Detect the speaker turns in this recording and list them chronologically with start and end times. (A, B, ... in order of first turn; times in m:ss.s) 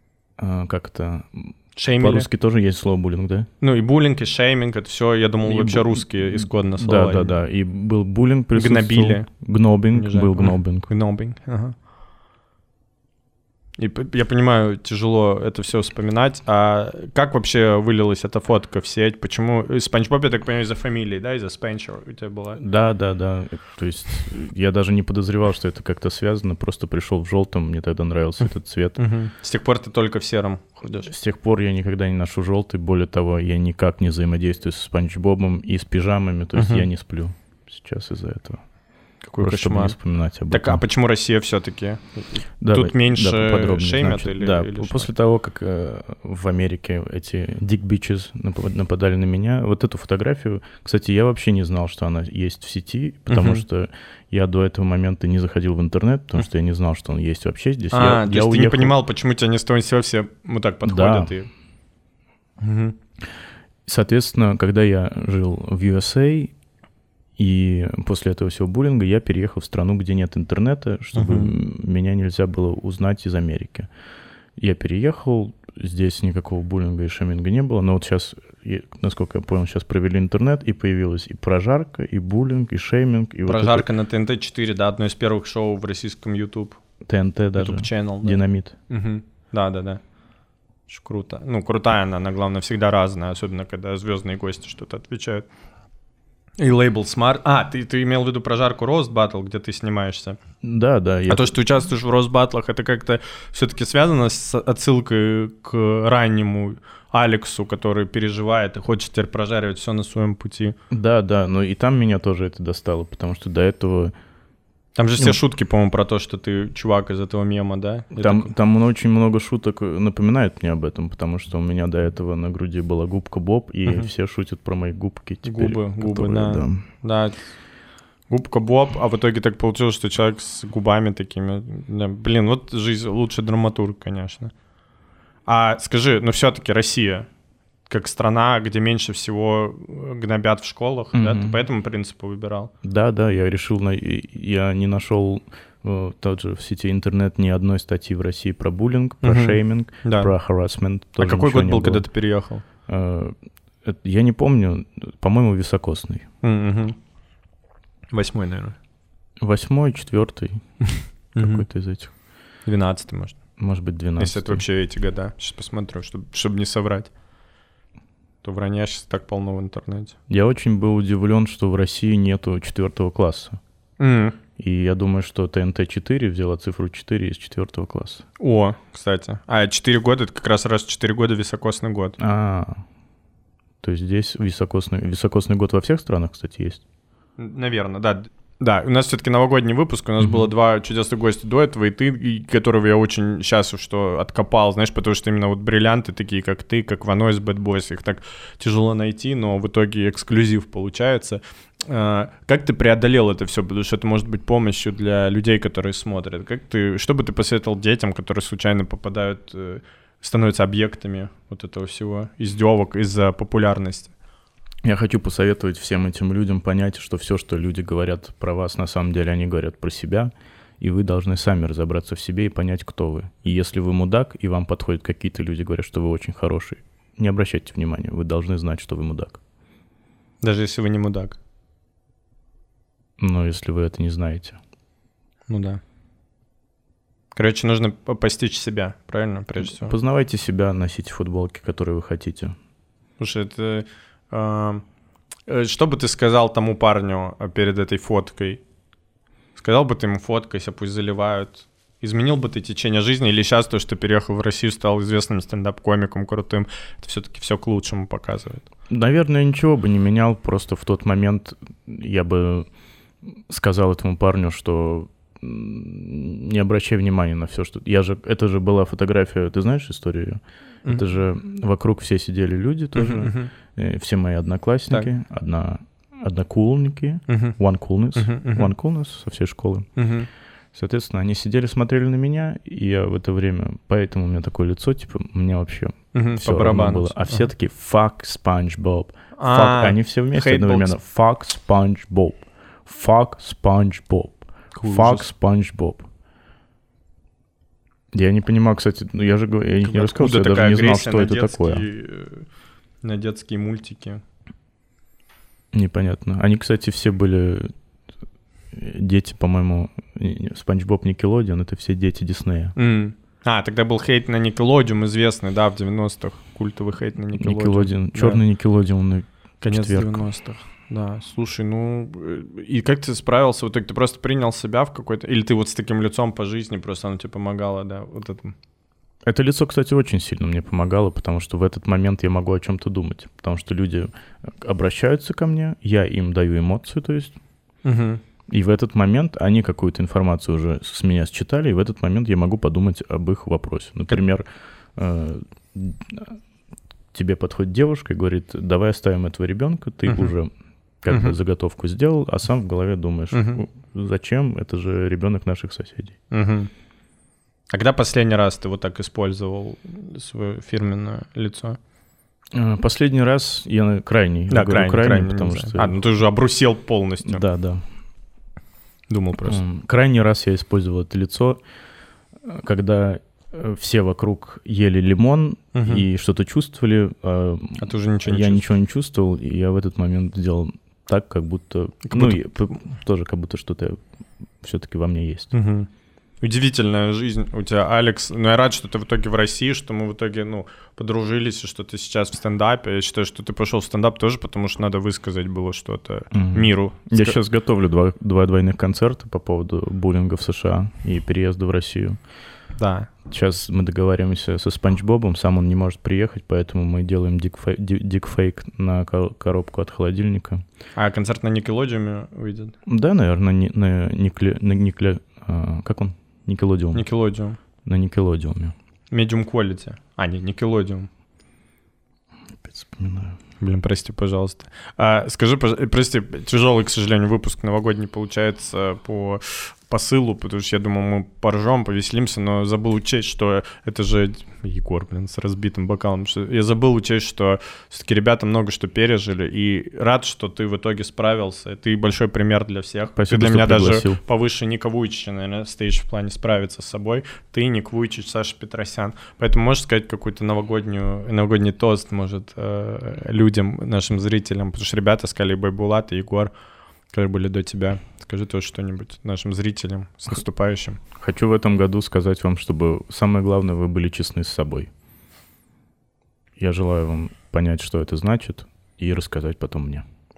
0:00.4-0:03.5 A
0:01.8-0:02.3 B
0:03.6-0:07.4 B
0:05.4-0:10.9 A
0:08.5-0:09.3 B
0:09.9-0:11.8 B
0:13.8-0:22.6 B
0:22.6-0:29.0 A
0:29.0-0:31.1 B
0:31.0-0:38.6 A
0:36.5-0:36.9 B
0:39.2-0:40.0 B
0:39.4-0:40.8 A
0:40.5-0:45.1 B
0:42.6-0:59.0 A
0:53.3-0:53.6 B
0:57.9-1:01.5 B
1:00.8-1:01.3 A
1:02.6-1:03.0 B
1:03.9-1:06.5 A
1:07.4-1:13.9 A
1:11.2-1:11.5 B
1:14.6-1:23.9 A
1:23.5-1:26.8 B
1:27.0-1:28.8 A
1:27.6-1:30.0 B
1:30.9-1:35.5 B
1:36.6-1:40.4 B
1:40.6-1:41.5 A
1:41.3-1:50.8 B
1:50.9-1:54.1 A
1:55.0-1:58.5 B
1:58.1-2:06.9 A
2:03.9-2:04.1 B
2:05.4-2:07.5 B
2:08.3-2:14.5 B
2:15.5-2:17.3 B
2:17.9-2:22.7 B
2:21.1-2:21.6 A
2:22.8-2:32.1 A
2:29.2-2:30.3 B
2:31.2-2:32.6 B
2:32.9-2:36.2 A
2:36.4-2:37.0 B
2:38.1-2:38.8 B
2:39.4-2:42.1 A
2:41.4-2:41.6 B
2:42.6-2:43.4 B
2:43.6-2:44.6 A
2:44.2-2:47.1 B
2:48.4-2:50.2 B
2:50.3-2:53.6 A
2:54.0-2:54.4 B
2:54.6-2:58.2 A
2:58.4-3:02.2 B
3:02.2-3:02.8 A
3:03.8-3:06.8 A
3:07.4-3:34.1 B
3:34.8-3:49.4 A
3:50.4-3:51.4 B
3:53.2-3:54.6 A
3:55.5-3:55.8 B
3:57.3-4:00.0 B
3:59.6-4:02.6 A
4:03.2-4:04.8 B
4:05.5-4:08.6 B
4:09.6-4:18.6 B
4:18.9-4:22.7 A
4:23.5-4:39.9 A
4:33.0-4:33.5 B
4:37.3-4:37.6 B
4:38.2-4:38.7 B
4:40.0-4:40.3 B
4:40.7-4:56.1 A
4:46.1-4:47.5 B
4:49.4-4:51.0 B
4:54.8-4:55.3 B
4:58.1-5:01.8 A
4:59.9-5:02.5 B
5:03.0-5:04.2 B
5:05.7-5:07.7 A
5:08.7-5:12.8 A
5:12.8-5:18.4 B
5:17.4-5:20.2 A
5:19.6-5:28.6 B
5:29.3-5:37.4 A
5:37.8-5:38.2 B
5:38.5-5:46.4 A
5:47.1-5:50.5 A
5:50.1-5:50.3 B
5:51.0-5:56.2 A
5:51.1-5:51.4 B
5:53.3-5:53.6 B
5:56.3-5:56.7 B
5:57.7-6:01.8 B
6:02.5-6:06.0 A
6:04.5-6:07.4 B
6:07.3-6:07.8 A
6:09.1-6:09.6 B
6:09.4-6:11.6 A
6:12.4-6:24.0 A
6:15.7-6:16.0 B
6:17.8-6:18.7 B
6:22.1-6:22.8 B
6:24.6-6:25.5 A
6:25.5-6:25.9 B
6:26.4-6:37.4 B
6:36.3-6:42.2 A
6:42.7-6:43.1 B
6:43.3-6:50.6 A
6:51.0-6:52.7 B
6:52.9-6:57.1 A
6:56.9-6:57.6 B
6:57.8-6:58.7 A
6:59.1-7:01.1 B
7:02.6-7:03.4 A
7:03.6-7:36.5 B
7:23.2-7:24.2 A
7:37.1-7:41.0 B
7:41.2-7:44.9 A
7:46.6-7:50.0 A